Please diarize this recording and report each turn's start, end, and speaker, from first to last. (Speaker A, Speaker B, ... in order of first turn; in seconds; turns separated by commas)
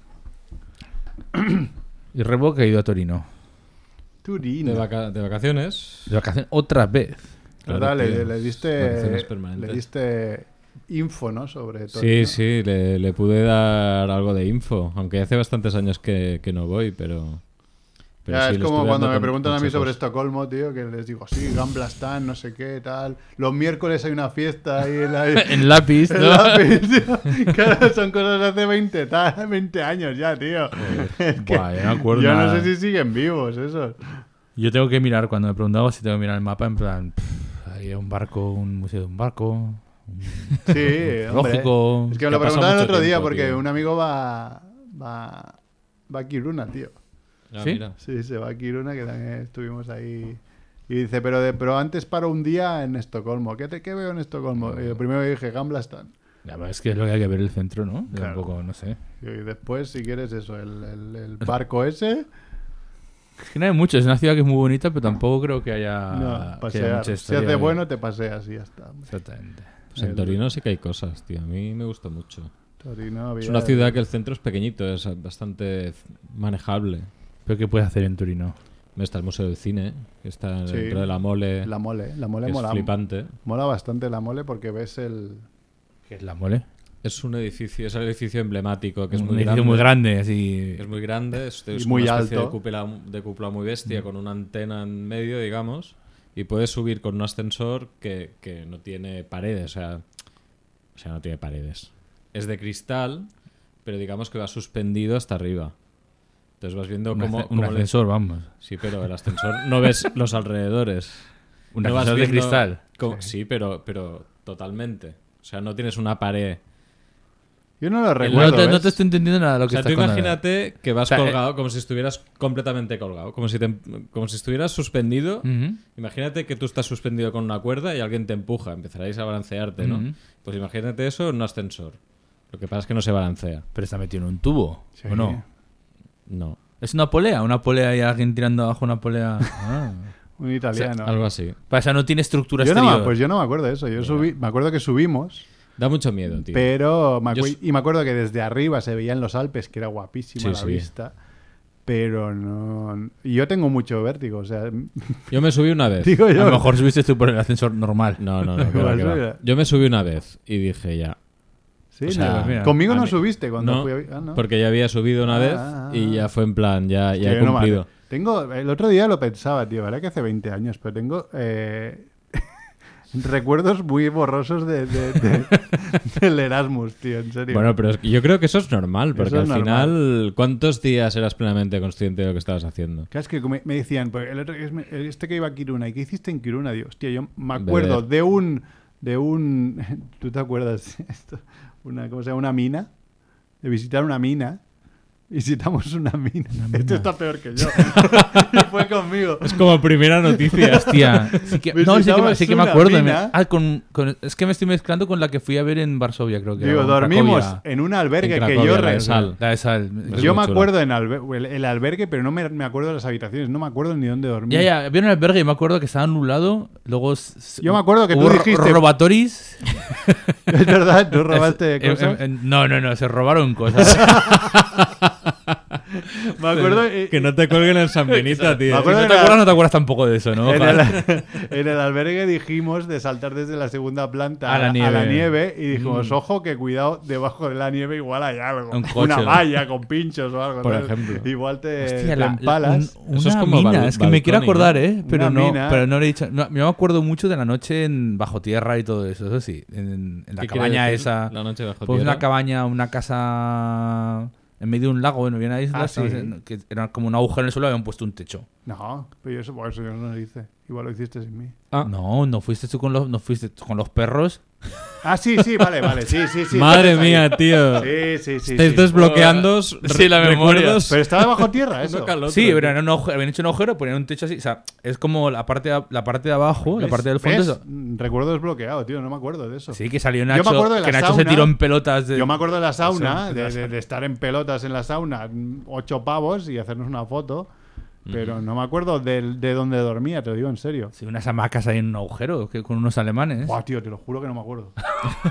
Speaker A: 2.1-3.3, Speaker B: 4.2-4.8, Speaker C: 4.6-6.1, Speaker A: 6.1-7.3, Speaker C: 7.7-9.8, Speaker B: 7.7-12.4, Speaker C: 11.9-17.5, Speaker C: 18.2-19.9, Speaker B: 18.3-34.2, Speaker A: 25.3-26.8, Speaker A: 30.8-32.7, Speaker A: 34.5-42.2, Speaker B: 40.6-47.0, Speaker C: 42.3-43.6, Speaker C: 47.5-48.0, Speaker B: 48.0-56.1, Speaker A: 56.4-59.0, Speaker B: 58.1-58.4, Speaker B: 59.2-62.3, Speaker A: 63.4-67.8, Speaker B: 66.1-69.1, Speaker A: 69.1-69.7, Speaker C: 69.9-72.5, Speaker B: 70.0-70.4, Speaker B: 72.8-74.0, Speaker C: 73.4-77.1, Speaker A: 77.5-78.5, Speaker C: 79.0-81.7, Speaker B: 80.7-85.5, Speaker C: 82.4-83.3, Speaker A: 86.1-86.6, Speaker C: 87.0-89.9, Speaker A: 89.1-90.8, Speaker C: 90.8-100.0, Speaker B: 91.7-92.6, Speaker C: 100.9-103.3, Speaker C: 103.8-105.8, Speaker C: 106.6-116.6, Speaker A: 107.1-108.5, Speaker A: 111.7-112.8, Speaker B: 117.8-118.9, Speaker C: 118.2-118.7, Speaker A: 118.3-120.4, Speaker C: 119.7-133.7, Speaker A: 121.1-121.4, Speaker A: 125.4-125.8, Speaker A: 129.8-130.1, Speaker A: 133.7-135.4, Speaker B: 135.0-135.4, Speaker C: 136.3-136.6, Speaker A: 136.8-140.1, Speaker B: 140.4-141.2, Speaker C: 141.0-141.6, Speaker A: 141.7-143.1, Speaker B: 142.6-145.4, Speaker C: 144.0-144.3, Speaker C: 145.8-146.7, Speaker B: 146.3-151.1, Speaker C: 147.3-147.5, Speaker C: 150.4-150.8, Speaker B: 151.8-155.4, Speaker C: 155.3-156.2, Speaker B: 156.0-156.7, Speaker A: 156.3-158.2, Speaker C: 158.2-161.2, Speaker B: 158.6-159.4, Speaker B: 161.9-164.4, Speaker C: 162.0-167.9, Speaker A: 162.1-162.8, Speaker B: 165.2-166.3, Speaker B: 167.2-172.5, Speaker B: 173.1-177.7, Speaker C: 177.5-183.1, Speaker B: 179.1-179.9, Speaker B: 183.1-192.9, Speaker C: 187.5-188.0, Speaker B: 193.6-194.6, Speaker B: 195.3-203.3, Speaker A: 196.6-197.1, Speaker C: 197.8-198.6, Speaker C: 199.4-201.4, Speaker A: 200.8-207.6, Speaker B: 206.6-209.3, Speaker C: 208.2-209.4, Speaker A: 209.4-210.5, Speaker C: 210.1-210.7, Speaker B: 210.1-214.7, Speaker A: 214.5-219.8, Speaker B: 217.6-218.8, Speaker B: 220.5-222.2, Speaker A: 221.3-224.1, Speaker B: 223.8-224.5, Speaker C: 224.3-224.9, Speaker B: 226.3-227.3, Speaker C: 227.1-228.9, Speaker A: 228.1-230.9, Speaker B: 228.7-229.4, Speaker B: 230.4-242.9, Speaker A: 234.4-236.2, Speaker A: 238.7-239.4, Speaker C: 240.6-241.3, Speaker A: 241.8-251.3, Speaker C: 243.1-244.8, Speaker B: 245.0-245.9, Speaker C: 250.4-252.2, Speaker A: 251.8-258.4, Speaker B: 255.7-256.3, Speaker B: 258.6-261.5, Speaker A: 261.8-264.4, Speaker B: 265.0-269.3, Speaker C: 266.5-272.8, Speaker A: 268.9-270.8, Speaker B: 270.8-272.1, Speaker A: 272.3-277.6, Speaker B: 276.8-281.5, Speaker A: 279.7-283.7, Speaker B: 282.1-287.5, Speaker B: 288.1-290.9, Speaker C: 288.1-288.4, Speaker A: 290.9-293.5, Speaker B: 293.4-294.8